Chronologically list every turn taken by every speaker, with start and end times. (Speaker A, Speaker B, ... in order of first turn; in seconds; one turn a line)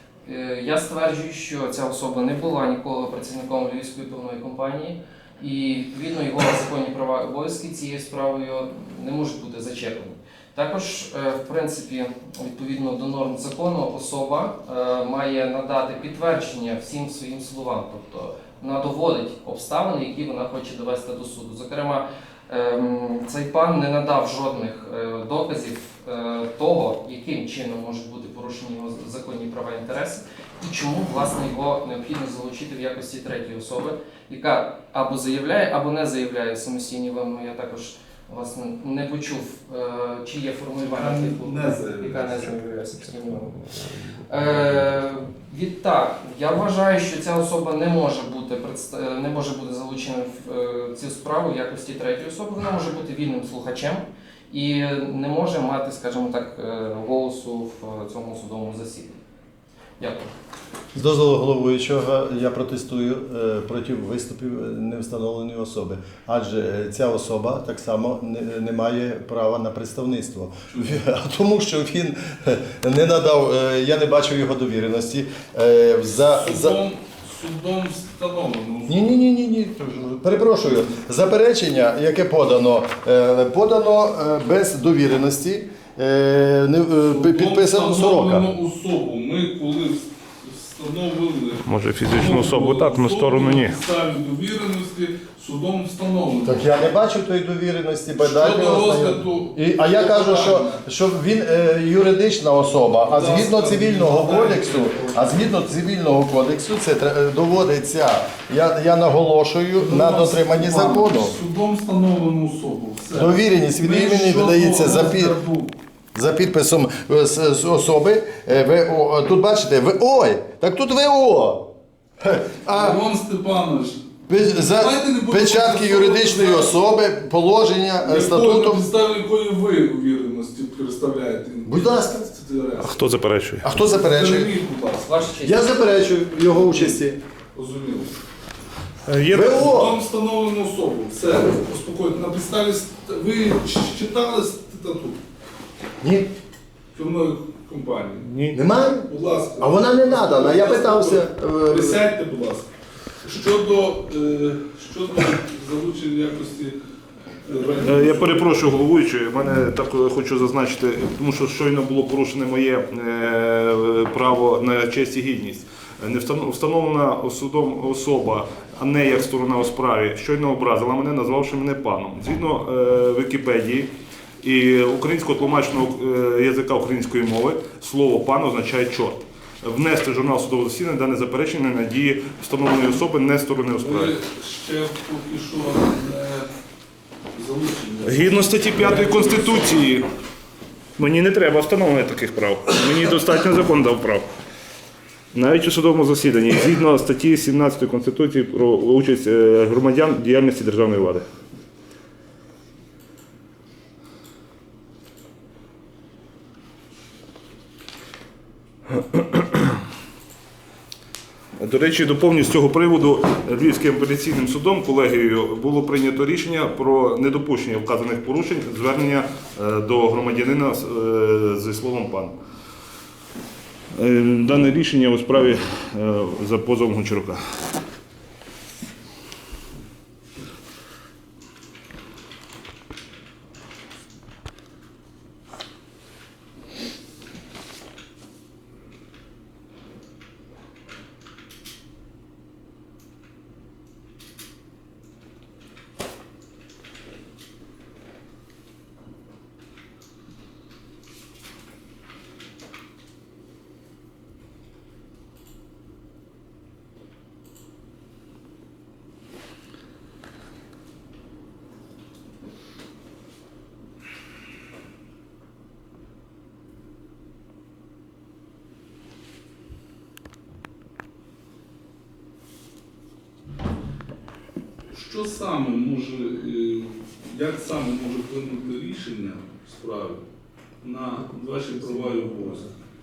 Speaker A: 0.2-43.6
Speaker B: 40.8-42.5
Speaker A: 44.3-59.2
Speaker A: 60.0-60.3
Speaker C: 60.9-76.8
Speaker B: 70.7-71.0
Speaker B: 76.3-79.1
Speaker C: 78.9-88.5
Speaker B: 80.7-80.9
Speaker B: 87.1-96.7
Speaker D: 91.7-93.8
Speaker C: 96.4-111.4
Speaker B: 98.2-100.8
Speaker B: 103.1-105.4
Speaker B: 109.8-115.8
Speaker C: 113.1-115.4
Speaker C: 116.1-121.7
Speaker C: 122.2-123.0
Speaker B: 122.7-126.7
Speaker C: 124.3-128.9
Speaker B: 128.0-133.1
Speaker C: 131.7-132.3
Speaker D: 132.8-133.7
Speaker C: 133.6-134.5
Speaker B: 133.8-135.2
Speaker A: 135.0-135.8
Speaker C: 135.4-137.2
Speaker B: 136.6-137.0
Speaker B: 137.5-138.2
Speaker D: 139.1-139.8
Speaker C: 139.3-140.0
Speaker B: 139.4-145.2
Speaker C: 146.0-146.3
Speaker B: 146.9-148.3
Speaker D: 148.2-148.6
Speaker C: 148.5-152.0
Speaker B: 149.1-152.7
Speaker B: 153.2-156.8
Speaker B: 157.4-158.5
Speaker D: 157.8-173.9
Speaker D: 174.4-184.1
Speaker B: 183.8-186.5
Speaker B: 187.3-189.9
Speaker D: 188.0-190.1
Speaker D: 191.0-194.3
Speaker D: 195.3-201.2
Speaker D: 208.9-209.8
Speaker D: 211.6-222.3
Speaker D: 223.9-227.6
Speaker B: 274.9-280.2
Speaker B: 280.8-282.7
Speaker C: 281.8-282.7